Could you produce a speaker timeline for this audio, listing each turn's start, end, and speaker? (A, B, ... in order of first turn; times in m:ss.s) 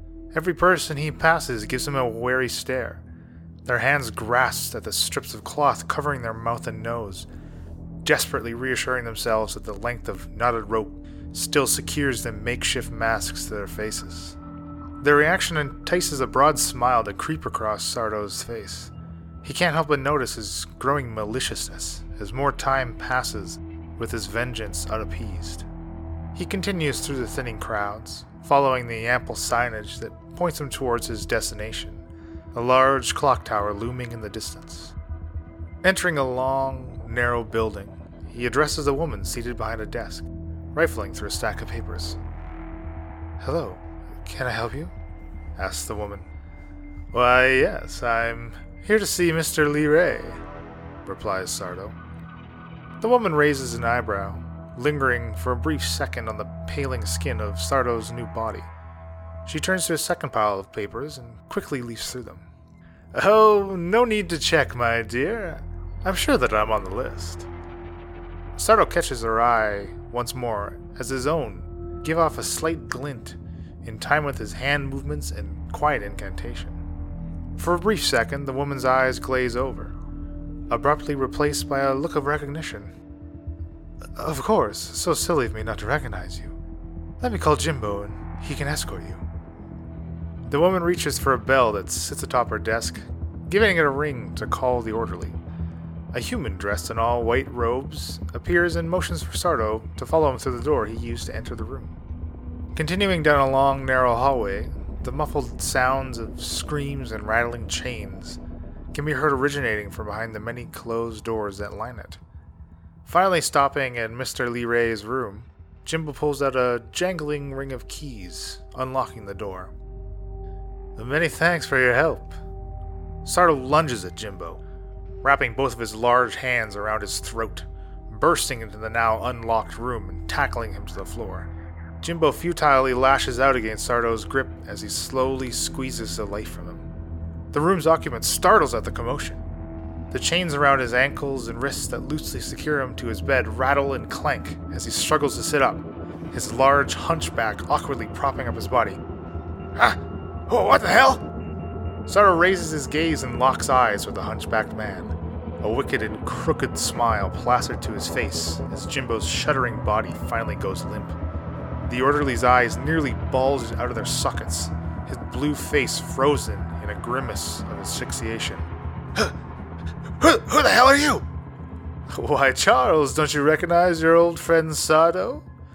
0:00.3-0:03.0 A
0:03.6-0:07.3 A
0:08.0-0:14.4 A
0:15.0-0:18.9 A
0:19.4-0:25.6 A
0:26.3-0:34.9 A
0:35.8-0:42.2 A
0:43.4-0:44.9 A
0:45.6-0:46.2 A
0:47.1-0:50.4 A
0:51.0-0:51.9 A
0:53.0-0:58.7 A
0:59.4-1:02.4 A
1:03.1-1:07.5 A
1:08.6-1:16.8 A
1:17.6-1:19.9 A
1:20.7-1:22.9 A
1:24.2-1:26.5 A
1:27.2-1:29.2 A
1:30.5-1:35.4 A
1:36.1-1:41.9 A
1:42.7-1:48.4 A
1:48.9-1:52.2 A
1:53.0-1:59.7 A
2:01.0-2:02.3 A
2:03.2-2:04.6 A
2:05.2-2:11.5 A
2:12.0-2:16.8 A
2:17.5-2:19.4 A
2:20.1-2:29.0 A
2:29.8-2:31.2 A
2:32.1-2:41.2 A
2:41.8-2:49.3 A
2:50.2-2:51.2 A
2:52.1-2:55.4 A